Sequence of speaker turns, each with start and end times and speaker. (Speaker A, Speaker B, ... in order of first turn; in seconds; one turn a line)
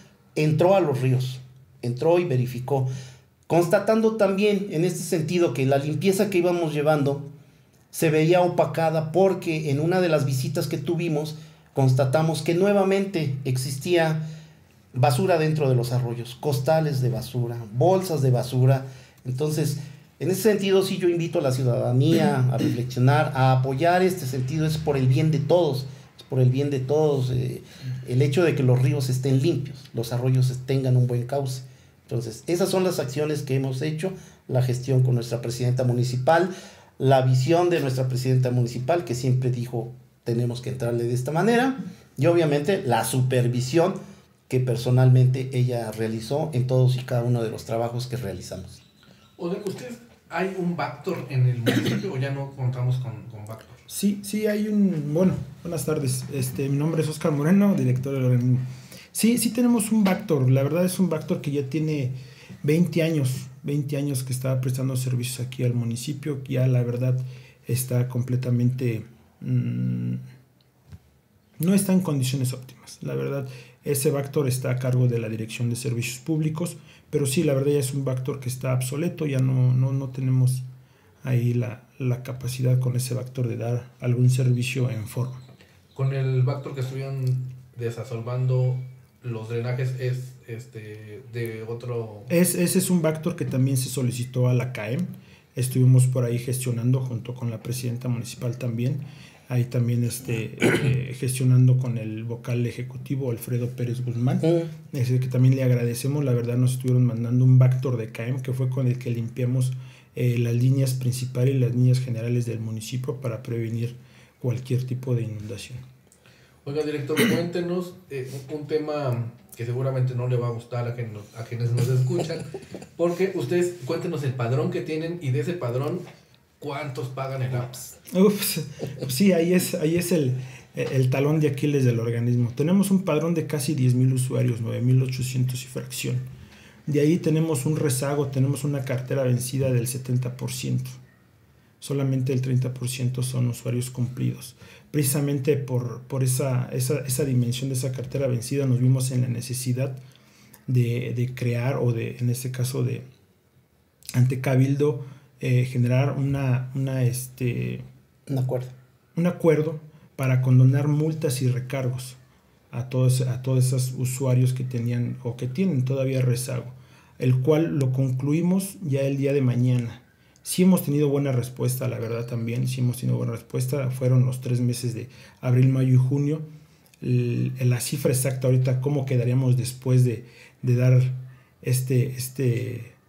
Speaker A: 0.4-2.9
Speaker A: 3.5-7.3
Speaker A: 7.9-14.2
Speaker A: 14.9-48.8
Speaker B: 49.4-53.8
Speaker C: 53.9-70.2
Speaker C: 71.6-80.6
Speaker C: 81.2-85.4
Speaker B: 85.9-92.3
Speaker C: 92.3-115.8
Speaker A: 104.4-104.7
Speaker B: 116.7-126.0
Speaker B: 126.6-127.9
Speaker C: 128.1-136.3
Speaker C: 136.9-141.0
Speaker C: 141.8-150.0
Speaker C: 150.7-153.1
Speaker C: 154.1-157.8
Speaker A: 158.3-158.7
Speaker C: 159.2-162.2
Speaker C: 162.7-176.5
Speaker C: 177.0-183.0